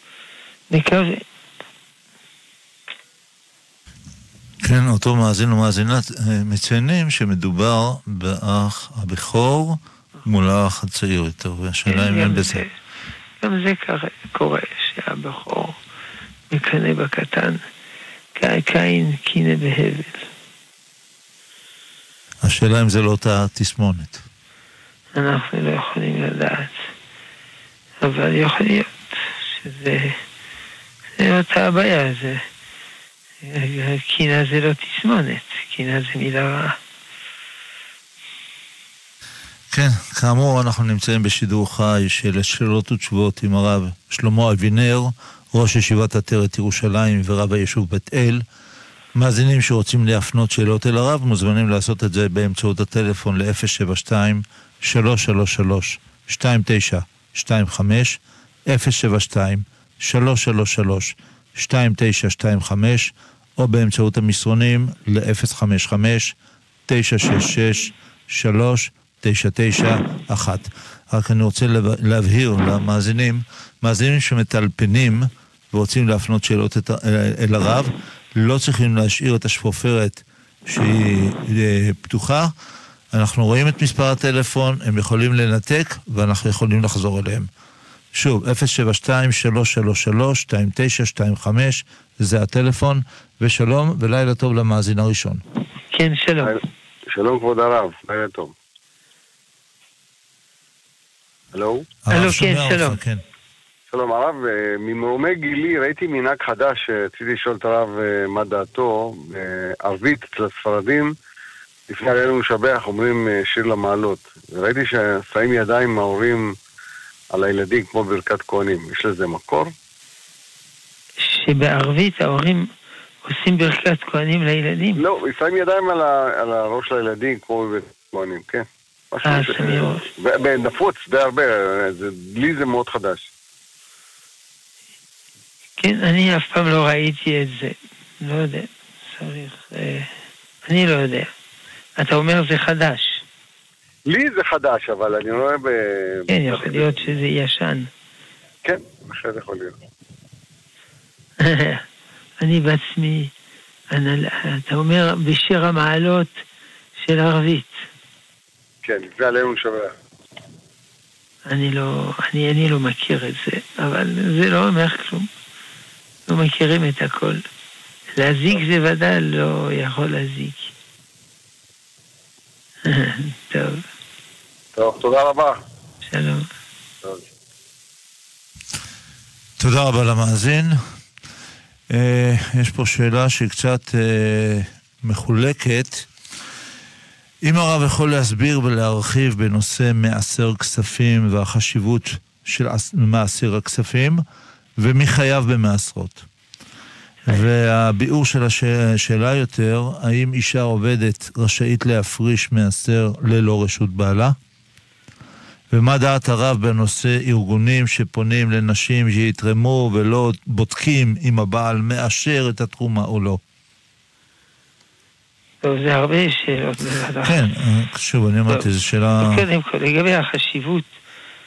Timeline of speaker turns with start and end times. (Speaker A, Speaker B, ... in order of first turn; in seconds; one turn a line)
Speaker A: 0.7-1.2
Speaker B: 4.6-12.6
Speaker A: 11.9-12.7
Speaker A: 13.4-15.8
Speaker A: 16.5-17.6
Speaker A: 18.3-20.3
Speaker B: 22.4-24.2
Speaker A: 25.1-26.8
Speaker A: 28.0-30.2
Speaker A: 31.2-32.4
Speaker A: 33.4-36.8
Speaker B: 39.7-48.4
Speaker B: 49.1-66.3
Speaker B: 66.9-82.5
Speaker B: 83.1-87.5
Speaker B: 88.1-95.4
Speaker A: 95.9-96.6
Speaker C: 96.4-98.5
Speaker C: 101.5-101.8
Speaker B: 102.0-103.2
Speaker A: 102.1-103.0
Speaker C: 103.9-111.1
Speaker C: 111.9-116.5
Speaker C: 117.3-119.7
Speaker A: 121.2-122.7
Speaker A: 123.2-125.0
Speaker C: 125.0-133.3
Speaker A: 129.2-130.0
Speaker A: 135.8-140.1
Speaker A: 140.7-141.3
Speaker A: 142.0-143.2
Speaker C: 144.1-147.1
Speaker A: 146.3-147.9
Speaker C: 148.6-149.8
Speaker A: 151.4-151.8
Speaker A: 152.4-153.3
Speaker A: 153.9-156.4
Speaker A: 157.0-157.8
Speaker C: 158.8-159.9
Speaker A: 161.4-165.3
Speaker A: 166.3-167.4
Speaker A: 168.2-170.7
Speaker A: 172.8-173.8
Speaker C: 174.8-175.6
Speaker A: 176.0-176.4
Speaker B: 179.6-180.8
Speaker B: 181.9-186.1
Speaker B: 187.4-194.2
Speaker B: 194.8-196.2
Speaker B: 197.3-204.3
Speaker B: 205.7-213.4
Speaker A: 215.6-217.5
Speaker B: 217.2-219.4
Speaker A: 219.2-220.9